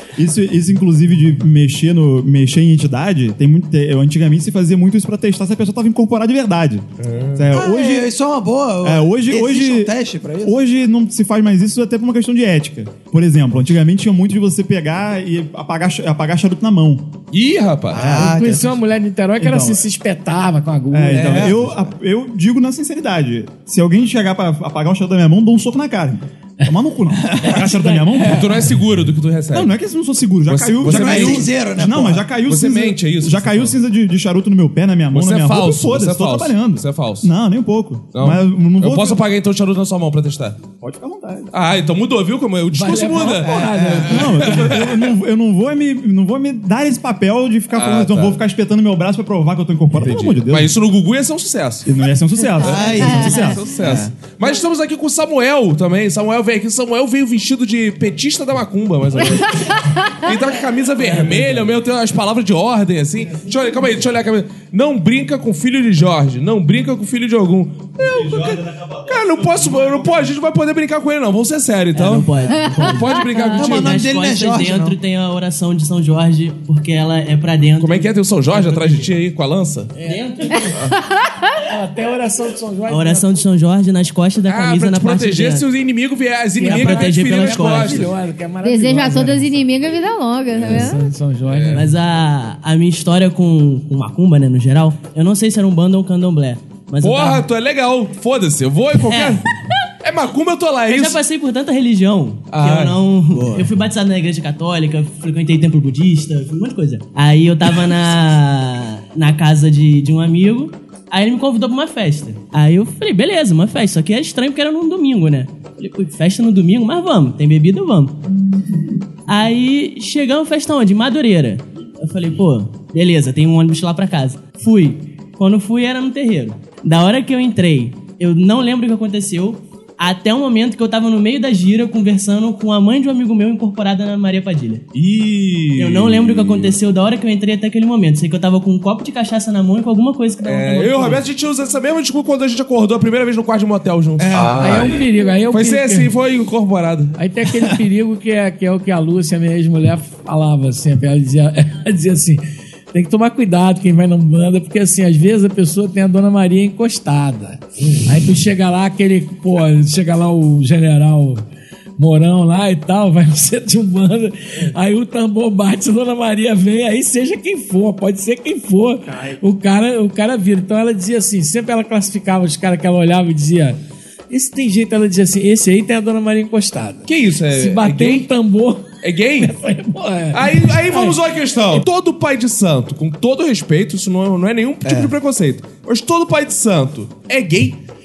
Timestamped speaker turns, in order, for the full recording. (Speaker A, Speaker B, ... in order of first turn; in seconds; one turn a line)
Speaker A: 0.1-8.1
Speaker B: 7.0-7.5
Speaker C: 7.5-10.6
Speaker A: 8.8-17.1
Speaker B: 17.3-18.1
Speaker C: 17.9-18.8
Speaker A: 18.0-18.2
Speaker D: 18.1-21.5
Speaker A: 19.4-19.8
Speaker A: 20.9-28.6
Speaker C: 21.1-21.9
Speaker D: 27.4-28.2
Speaker B: 28.2-29.7
Speaker A: 29.5-39.2
Speaker B: 30.5-31.5
Speaker C: 30.8-32.2
Speaker B: 32.5-33.8
Speaker B: 35.1-37.3
Speaker B: 38.1-40.6
Speaker A: 40.8-41.5
Speaker B: 41.5-45.0
Speaker D: 42.7-44.5
Speaker C: 43.0-44.4
Speaker A: 44.0-50.7
Speaker B: 47.7-48.4
Speaker B: 50.0-51.9
Speaker A: 51.8-53.6
Speaker C: 52.6-54.1
Speaker B: 52.6-73.9
Speaker E: 59.5-60.1
Speaker A: 68.0-70.3
Speaker F: 71.9-73.0
Speaker E: 72.5-73.6
Speaker C: 73.6-75.0
Speaker F: 73.6-79.1
Speaker B: 77.8-79.9
Speaker D: 80.0-80.7
Speaker F: 80.0-80.5
Speaker E: 80.7-81.5
Speaker D: 81.6-83.4
Speaker F: 82.9-85.7
Speaker B: 84.5-88.1
Speaker D: 86.6-89.6
Speaker F: 86.6-88.1
Speaker E: 88.6-91.1
Speaker D: 90.7-91.9
Speaker B: 91.5-91.8
Speaker F: 91.7-97.5
Speaker B: 97.0-99.4
Speaker F: 99.0-99.4
Speaker B: 100.0-101.2
Speaker F: 100.9-118.2
Speaker B: 102.5-103.0
Speaker C: 103.3-103.7
Speaker F: 119.3-134.8
Speaker B: 134.9-136.8
Speaker F: 135.8-141.2
Speaker B: 140.4-145.0
Speaker C: 144.2-144.9
Speaker D: 144.6-146.1
Speaker B: 145.5-147.2
Speaker D: 147.2-152.4
Speaker D: 152.9-161.4
Speaker D: 162.0-173.8
Speaker D: 174.3-181.2
Speaker B: 177.1-178.3
Speaker B: 179.0-179.5
Speaker B: 180.3-187.8
Speaker C: 184.8-185.1